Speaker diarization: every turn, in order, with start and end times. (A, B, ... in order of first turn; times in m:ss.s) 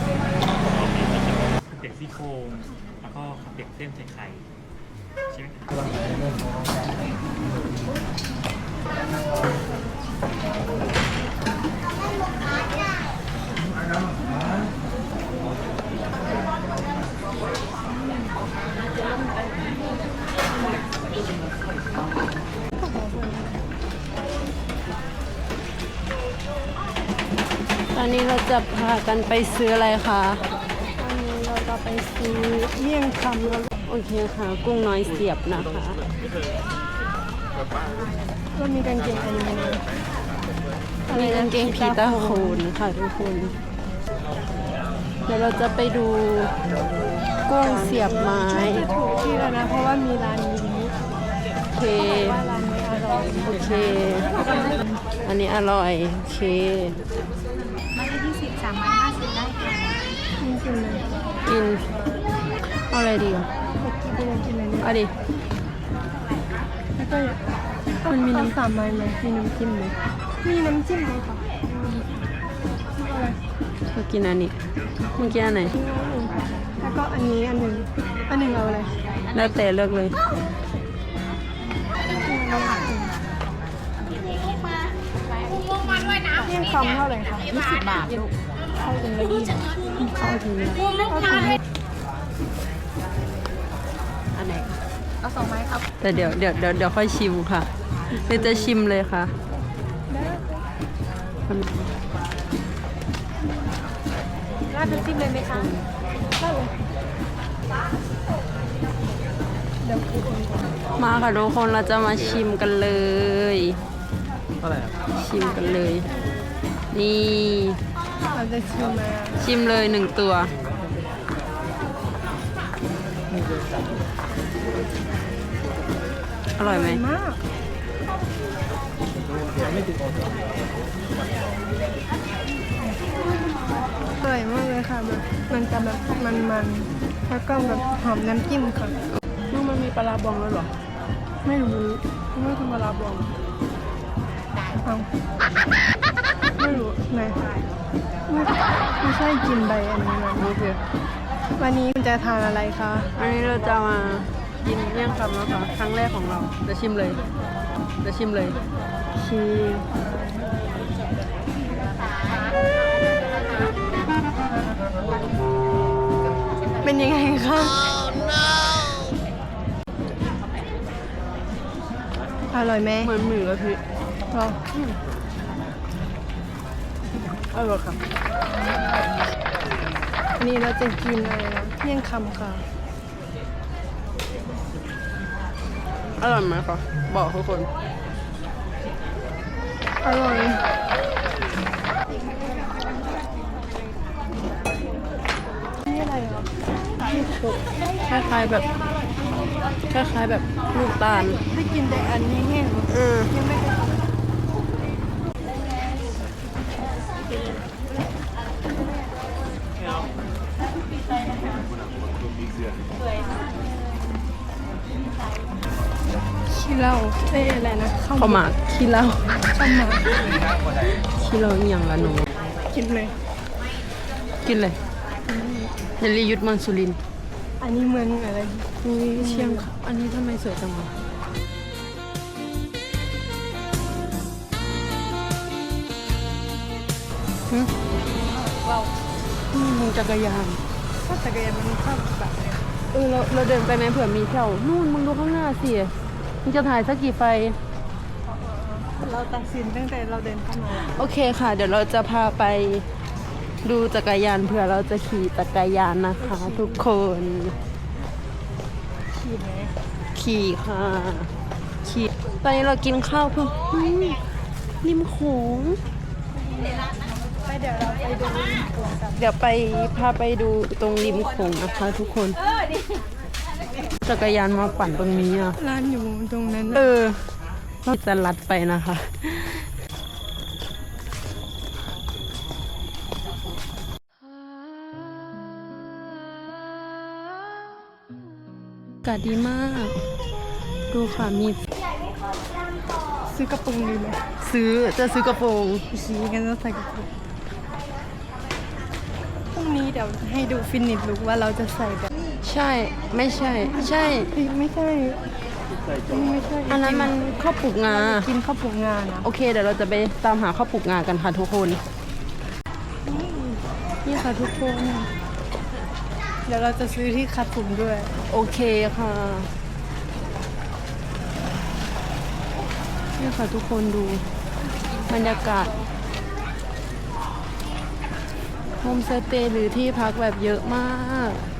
0:00.8-0:04.4 A
0:05.3-0:05.8 A
0:22.8-0:23.6 B
0:27.9-0:30.4 C
0:31.0-0:33.7 B
0:33.8-0:36.0 C
0:38.5-0:39.8 B
0:41.1-0:42.6 B
0:41.1-0:43.6 C
0:45.3-0:46.5 C
0:47.5-0:48.8 C
0:48.2-0:50.9 B
0:51.7-0:52.4 C
0:51.9-0:54.8 B
0:53.4-0:54.5 C
0:55.2-0:57.0 C
0:58.0-1:00.0 D
1:00.4-1:01.1 B
1:01.4-1:01.9 C
1:02.9-1:03.5 C
1:03.8-1:04.9 B
1:04.8-1:05.1 C
1:07.0-1:07.4 B
1:08.0-1:12.0 B
1:08.1-1:08.5 C
1:13.0-1:13.4 B
1:13.9-1:14.5 C
1:15.2-1:15.7 C
1:15.7-1:18.9 B
1:19.3-1:20.2 C
1:22.0-1:23.2 B
1:25.8-1:27.6 B
1:27.9-1:28.3 C
1:28.8-1:30.1 B
1:30.2-1:30.9 C
1:31.0-1:31.6 B
1:35.2-1:35.8 D
1:36.0-1:39.3 C
1:40.1-1:40.6 B
1:41.5-1:41.9 C
1:44.7-1:45.5 D
1:44.9-1:45.8 C
1:46.4-1:46.7 B
1:49.8-1:50.7 B
1:51.0-1:53.8 C
1:55.1-1:56.1 C
1:56.9-1:57.8 C
1:58.3-1:59.4 B
1:59.4-2:00.6 C
2:06.6-2:07.0 C
2:06.6-2:07.4 B
2:14.2-2:18.9 B
2:19.5-2:20.7 C
2:21.4-2:23.3 B
2:24.8-2:25.1 B
2:26.6-2:27.4 B
2:28.3-2:30.5 B
2:30.4-2:30.8 C
2:31.6-2:33.1 B
2:33.2-2:37.2 C
2:38.0-2:38.6 C
2:39.1-2:40.4 B
2:46.8-2:48.0 B
2:52.5-2:53.1 B
2:53.0-2:53.8 C
2:54.3-2:54.6 B
2:54.7-2:55.0 C
2:57.5-2:58.0 C
3:00.4-3:02.6 B
3:06.2-3:07.7 C
3:10.0-3:10.6 B
3:15.8-3:16.5 B
3:17.1-3:18.7 C
3:19.9-3:21.4 C
3:21.4-3:24.0 B
3:22.9-3:23.3 C
3:36.5-3:38.4 B
3:38.1-3:39.4 C
3:39.5-3:40.0 B
3:40.8-3:42.3 C
3:42.7-3:43.2 B
3:44.4-3:44.8 C
3:45.2-3:45.7 B
3:46.0-3:47.0 C
3:47.6-3:49.7 B
3:48.8-3:50.9 C
3:59.5-4:00.6 C
4:01.0-4:02.7 B
4:02.9-4:07.6 C
4:08.2-4:10.9 B
4:10.7-4:12.8 C
4:13.6-4:17.6 C
4:16.2-4:16.8 B
4:19.1-4:19.7 B
4:20.1-4:21.3 C
4:21.8-4:24.2 C
4:24.8-4:25.8 C
4:26.3-4:26.9 B
4:27.4-4:29.2 B
4:29.2-4:32.4 C
4:34.0-4:35.6 C
4:35.6-4:36.9 B
4:36.7-4:37.3 C
4:37.8-4:39.7 C
4:49.0-4:49.9 C
4:50.9-4:51.6 C
4:53.3-4:54.2 B
4:54.4-4:55.9 C
4:55.9-4:57.1 B
4:59.5-5:02.1 B
5:02.4-5:04.3 C
5:04.3-5:05.2 B
5:06.1-5:07.2 B
5:06.7-5:08.3 C
5:07.8-5:09.3 B
5:09.2-5:11.8 C
5:13.0-5:13.6 B
5:14.0-5:15.1 C
5:16.4-5:18.1 B
5:18.3-5:19.5 C
5:23.2-5:24.2 C
5:25.1-5:25.8 C
5:28.8-5:31.4 C